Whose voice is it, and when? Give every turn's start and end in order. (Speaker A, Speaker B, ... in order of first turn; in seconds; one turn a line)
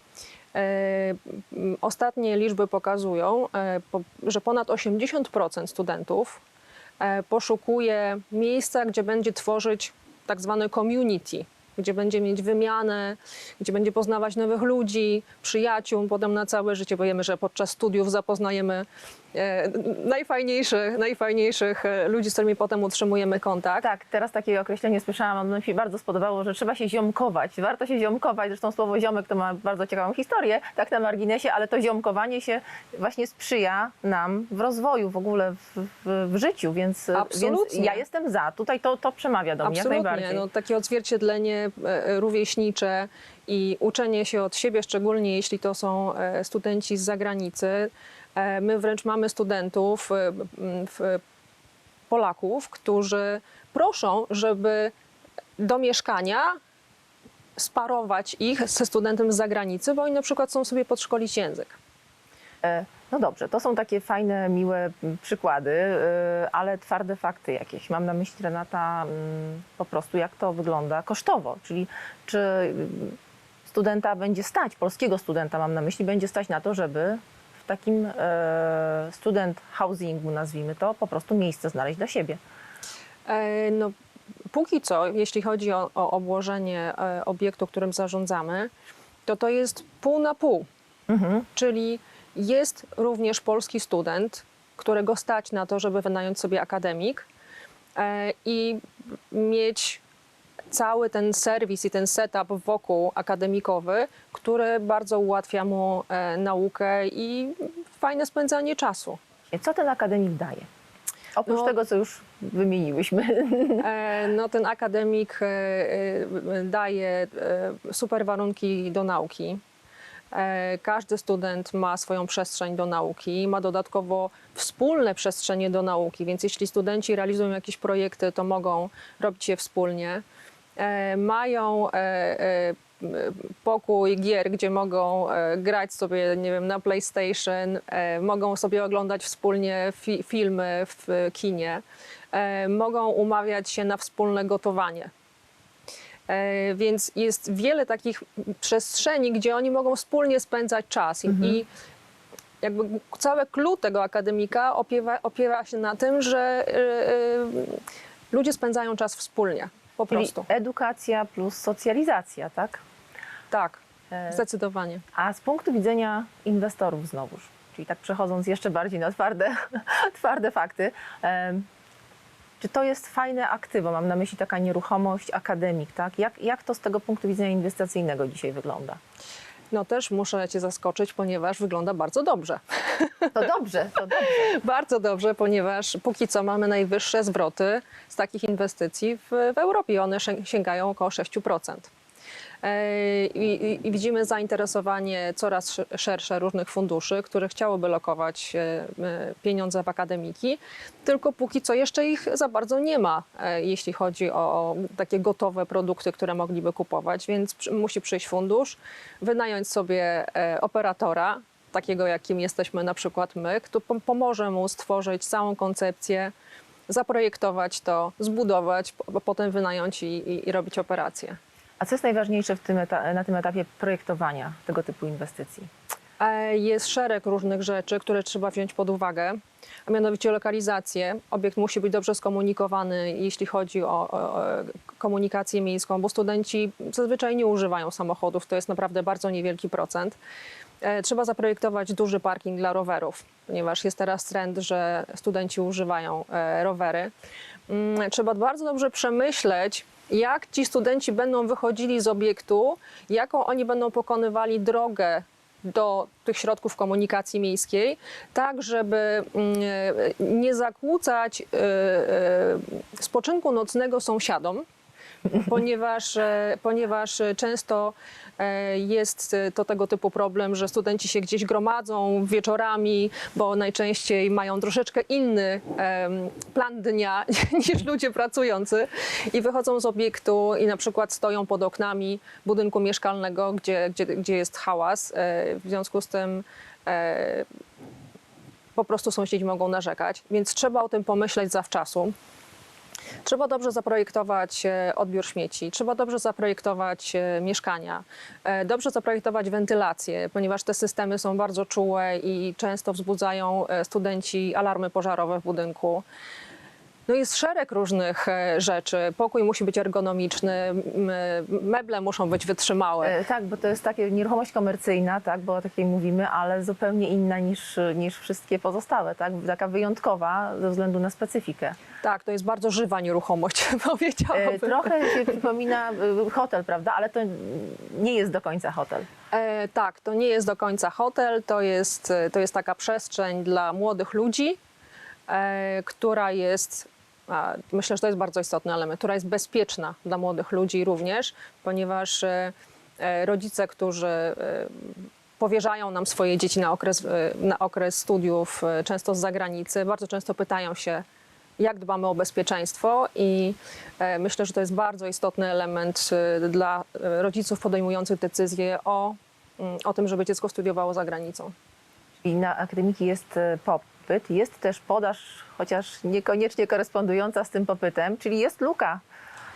Speaker A: 0.5-6.4
Speaker A: 7.0-23.9
Speaker B: 23.8-40.5
Speaker A: 37.1-38.0
Speaker A: 39.6-51.2
Speaker A: 52.1-54.9
Speaker A: 55.6-56.6
Speaker A: 57.6-61.8
Speaker B: 62.6-82.4
Speaker A: 83.3-83.9
Speaker A: 84.5-88.7
Speaker A: 89.3-90.7
Speaker B: 91.1-91.5
Speaker A: 91.5-97.3
Speaker A: 98.0-100.0
Speaker A: 100.7-109.2
Speaker B: 109.5-110.7
Speaker B: 111.4-113.9
Speaker A: 111.5-111.7
Speaker A: 113.8-119.6
Speaker A: 120.3-130.2
Speaker A: 130.8-145.1
Speaker A: 146.3-151.7
Speaker B: 151.3-151.6
Speaker A: 152.6-160.5
Speaker B: 160.1-162.8
Speaker A: 163.5-165.1
Speaker B: 164.1-164.4
Speaker B: 165.1-171.7
Speaker B: 172.6-179.0
Speaker A: 179.7-183.5
Speaker B: 183.3-184.5
Speaker A: 184.1-191.9
Speaker A: 192.6-216.3
Speaker A: 216.9-221.4
Speaker B: 221.8-225.7
Speaker A: 226.2-240.2
Speaker A: 240.8-247.1
Speaker A: 247.7-264.7
Speaker A: 265.4-287.5
Speaker A: 288.8-292.1
Speaker A: 293.2-306.1
Speaker A: 307.1-313.2
Speaker B: 313.0-321.8
Speaker A: 322.0-325.4
Speaker B: 324.3-329.1
Speaker A: 329.3-334.6
Speaker A: 335.3-351.0
Speaker A: 351.6-361.5
Speaker B: 362.2-369.0